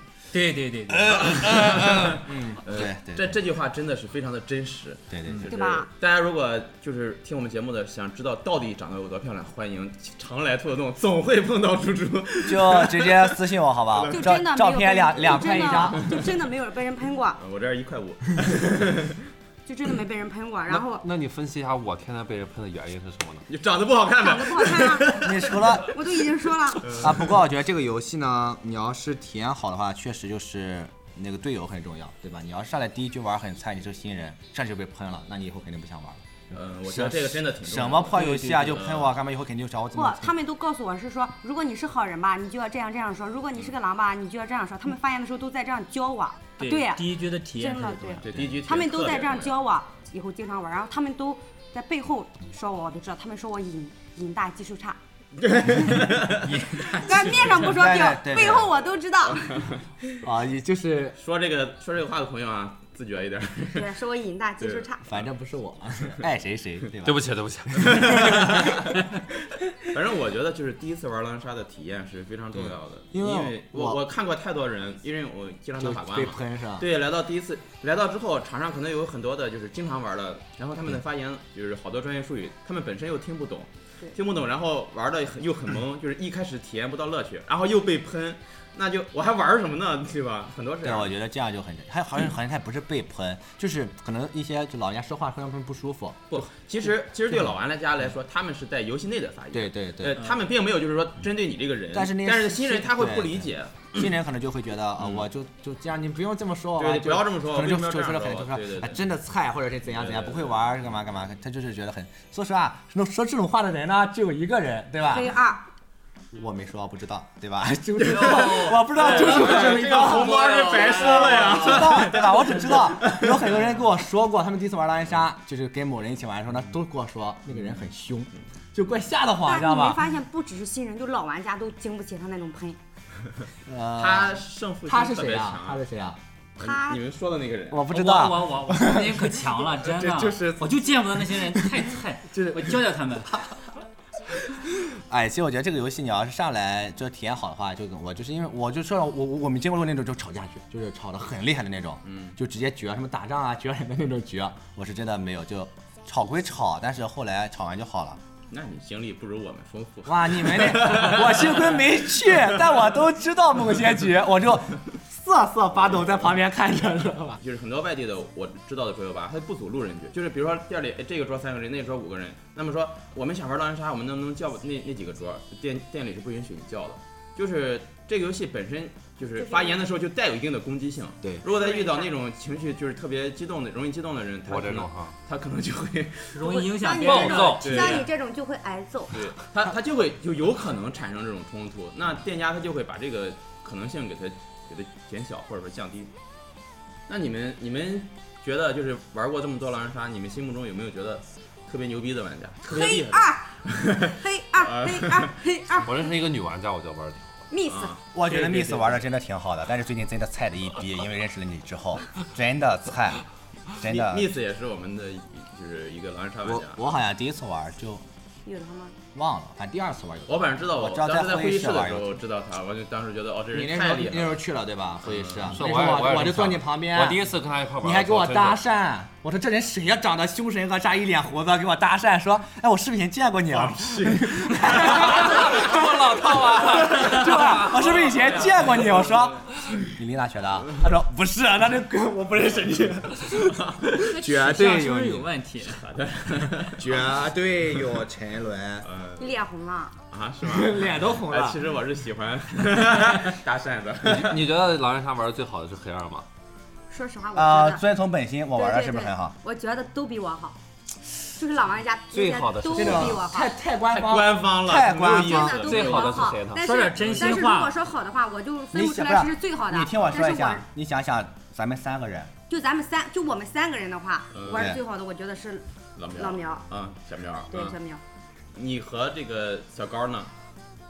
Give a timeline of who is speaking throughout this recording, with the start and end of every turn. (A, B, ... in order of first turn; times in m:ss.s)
0:00.3-0:01.5 A
0:01.0-0:02.1 B
0:01.1-0:14.2 C
0:02.0-0:03.4 D
0:05.1-0:05.5 D
0:05.5-0:05.9 E
0:12.4-0:16.2 D
0:14.1-0:17.4 E
0:15.3-0:16.2 C
0:17.4-0:19.3 C
0:19.6-0:21.0 E
0:20.7-0:23.5 B
0:23.5-0:26.0 C
0:24.2-0:27.0 E
0:25.2-0:26.0 D
0:26.8-0:27.4 C
0:26.9-0:40.3 D
0:36.5-0:39.1 C
0:38.3-0:38.6 A
0:39.9-0:55.0 E
0:46.6-0:48.3 A
0:48.2-0:49.5 C
0:55.4-0:57.1 C
0:56.8-0:59.7 E
0:57.3-0:58.7 D
0:59.2-0:59.8 C
1:00.2-1:01.2 D
1:01.2-1:03.9 C
1:03.7-1:05.2 E
1:04.6-1:04.9 C
1:05.0-1:07.2 D
1:07.0-1:08.5 B
1:07.7-1:08.9 D
1:07.8-1:09.0 C
1:09.8-1:31.1 C
1:12.5-1:14.0 D
1:15.8-1:16.9 D
1:30.8-1:36.4 D
1:36.3-1:44.1 C
1:39.5-1:40.2 D
1:41.9-1:55.3 D
1:45.0-1:45.2 C
1:46.8-1:49.0 C
1:49.9-1:50.7 C
1:55.0-1:55.6 E
1:56.3-2:10.0 D
1:58.0-2:03.6 C
1:58.1-1:58.4 B
2:00.5-2:01.6 A
2:07.5-2:07.9 C
2:09.4-2:12.8 E
2:13.6-2:16.2 D
2:14.0-2:15.8 C
2:16.6-2:17.0 E
2:16.6-2:17.9 C
2:17.7-2:23.5 D
2:17.9-2:23.4 A
2:24.4-2:38.2 D
2:32.0-2:32.4 C
2:38.5-2:41.8 C
2:40.0-2:47.4 D
2:47.4-3:06.4 C
2:59.4-2:59.9 E
3:01.4-3:02.1 E
3:04.5-3:05.2 B
3:06.3-3:07.9 A
3:06.4-3:09.2 E
3:07.0-3:08.0 B
3:07.6-3:08.1 C
3:09.1-3:16.1 C
3:17.1-3:25.3 C
3:22.6-3:26.1 E
3:25.8-3:27.4 B
3:27.5-3:28.0 E
3:27.6-3:29.0 C
3:28.1-3:33.2 D
3:33.8-3:34.3 D
3:33.8-3:36.8 C
3:36.4-3:38.0 D
3:38.4-3:39.0 E
3:39.1-3:42.2 D
3:40.3-3:44.4 C
3:43.5-3:47.3 D
3:45.0-3:45.6 C
3:45.5-3:48.6 B
3:47.8-4:05.3 D
3:53.5-3:55.1 C
3:54.8-3:58.9 B
3:58.1-3:58.6 C
4:03.6-4:03.9 C
4:04.0-4:05.8 A
4:05.8-4:07.2 C
4:06.7-4:08.9 D
4:08.8-4:09.4 C
4:09.2-4:10.0 E
4:10.1-4:14.4 C
4:10.4-4:11.6 D
4:14.0-4:16.2 B
4:16.9-4:17.8 E
4:17.3-4:19.3 D
4:18.5-4:20.6 E
4:21.3-4:23.5 E
4:22.1-4:23.2 B
4:22.7-4:25.8 D
4:23.9-4:26.3 C
4:25.1-4:30.6 E
4:25.6-4:26.7 B
4:26.6-4:27.8 A
4:28.7-4:32.3 D
4:32.5-4:36.6 E
4:34.3-4:34.7 C
4:34.5-4:34.8 D
4:36.0-4:37.8 C
4:37.5-4:38.0 E
4:38.5-4:40.3 C